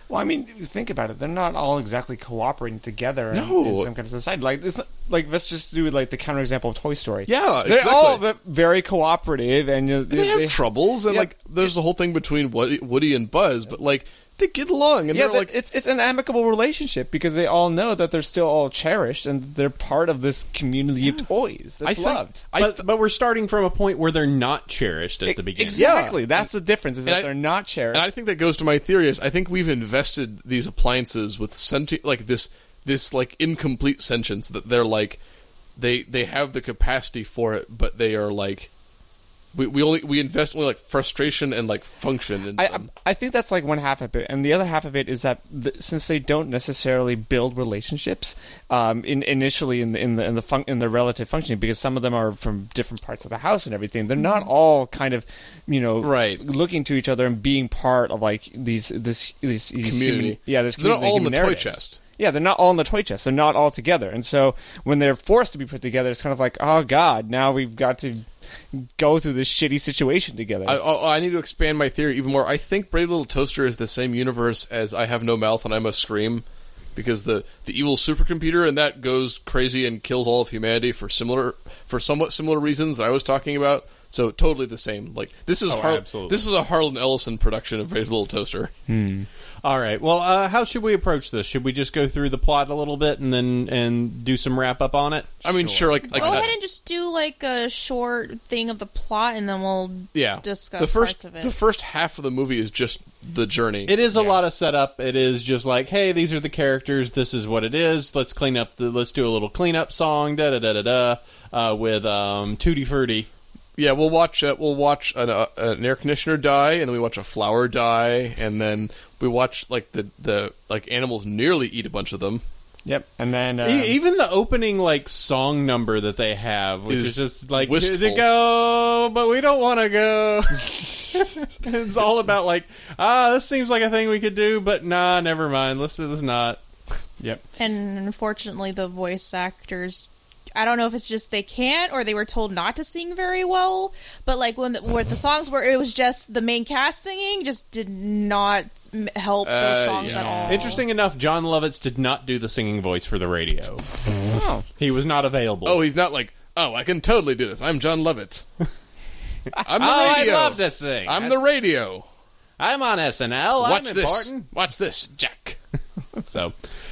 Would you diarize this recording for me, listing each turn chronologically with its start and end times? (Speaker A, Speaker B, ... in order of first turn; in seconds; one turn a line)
Speaker A: 0.1-11.3
Speaker B: 3.3-3.9
Speaker B: 7.2-8.2
Speaker B: 10.1-15.5
Speaker A: 15.1-22.4
Speaker B: 21.8-22.8
Speaker C: 22.6-26.0
Speaker A: 25.5-28.1
Speaker B: 25.7-26.2
Speaker B: 27.9-35.2
Speaker B: 35.8-38.7
Speaker B: 39.5-42.9
Speaker A: 42.6-70.8
Speaker B: 56.0-56.4
Speaker B: 59.8-62.0
Speaker B: 70.7-88.7
Speaker C: 85.7-86.4
Speaker A: 88.9-89.3
Speaker C: 89.6-96.4
Speaker B: 95.4-96.5
Speaker D: 96.1-101.5
Speaker B: 100.1-104.3
Speaker C: 103.9-113.3
Speaker B: 113.8-122.4
Speaker A: 122.8-124.0
Speaker C: 123.6-136.6
Speaker B: 126.9-128.2
Speaker D: 137.6-150.8
Speaker B: 149.4-150.8
Speaker A: 150.0-150.7
Speaker C: 150.5-153.8
Speaker A: 154.2-154.6
Speaker C: 154.8-155.8
Speaker B: 155.6-158.5
Speaker B: 159.6-162.0
Speaker C: 159.8-161.4
Speaker C: 162.6-164.5
Speaker B: 163.6-165.6
Speaker C: 166.3-166.5